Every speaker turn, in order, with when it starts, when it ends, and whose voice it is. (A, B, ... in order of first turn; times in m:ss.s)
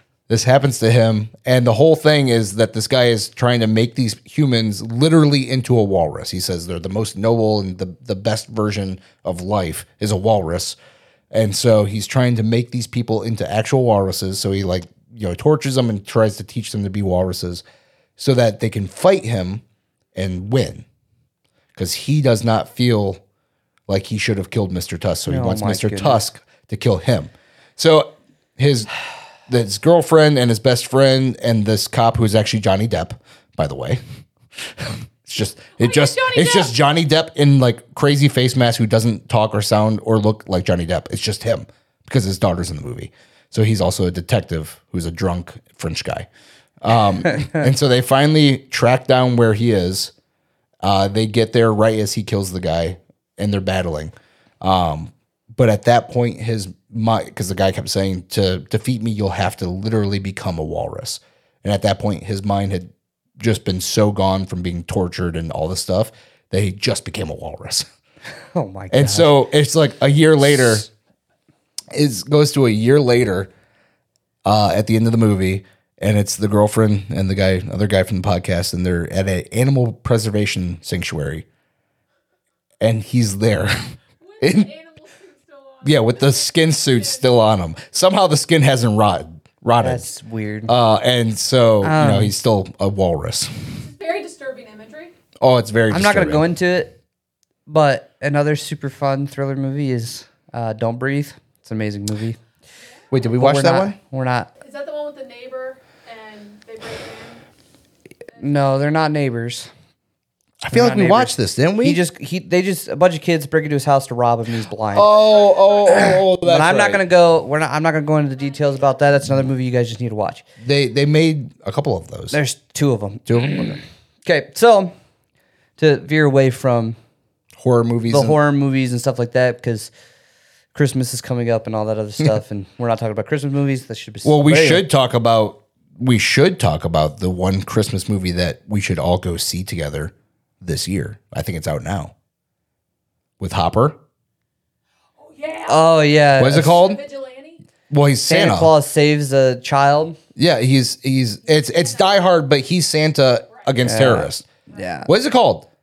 0:00.3-0:10.8 A
0:11.3-0:17.6 A
0:18.2-0:19.6 A
0:20.1-0:20.8 A
0:21.7-0:23.2 A
0:23.9-0:28.9 A
0:25.3-0:26.2 B
0:29.5-0:34.0 A
0:34.6-0:46.3 A
0:35.8-0:36.7 C
0:46.8-0:50.1 A
0:50.8-1:07.9 A
1:08.5-1:09.3 B
1:08.9-1:10.8 A
1:11.9-1:13.5 A
1:14.4-1:21.4 A
1:22.8-1:24.7 A
1:24.2-1:26.4 C
1:25.8-1:30.1 A
1:29.8-1:30.7 B
1:30.7-1:33.7 A
1:31.8-1:32.3 B
1:33.8-1:35.1 C
1:35.4-1:36.5 A
1:35.9-1:36.9 B
1:37.7-1:42.4 B
1:43.1-1:44.0 A
1:43.4-1:44.5 B
1:44.6-1:47.4 C
1:48.4-1:49.7 B
1:50.6-1:52.0 A
1:50.7-1:55.1 B
1:54.9-1:57.0 A
1:55.8-2:00.4 B
2:00.6-2:02.4 A
2:02.3-2:04.9 B
2:03.3-2:03.8 A
2:05.8-2:07.0 B
2:07.6-2:08.4 A
2:08.1-2:09.9 B
2:10.7-2:14.8 B
2:14.2-2:22.1 A
2:23.4-2:24.0 A
2:25.2-2:25.8 C
2:25.6-2:26.8 B
2:26.4-2:27.0 A
2:26.6-2:27.6 C
2:27.9-2:28.7 A
2:28.3-2:30.2 B
2:30.4-2:34.4 A
2:33.8-2:35.1 B
2:35.0-2:35.7 A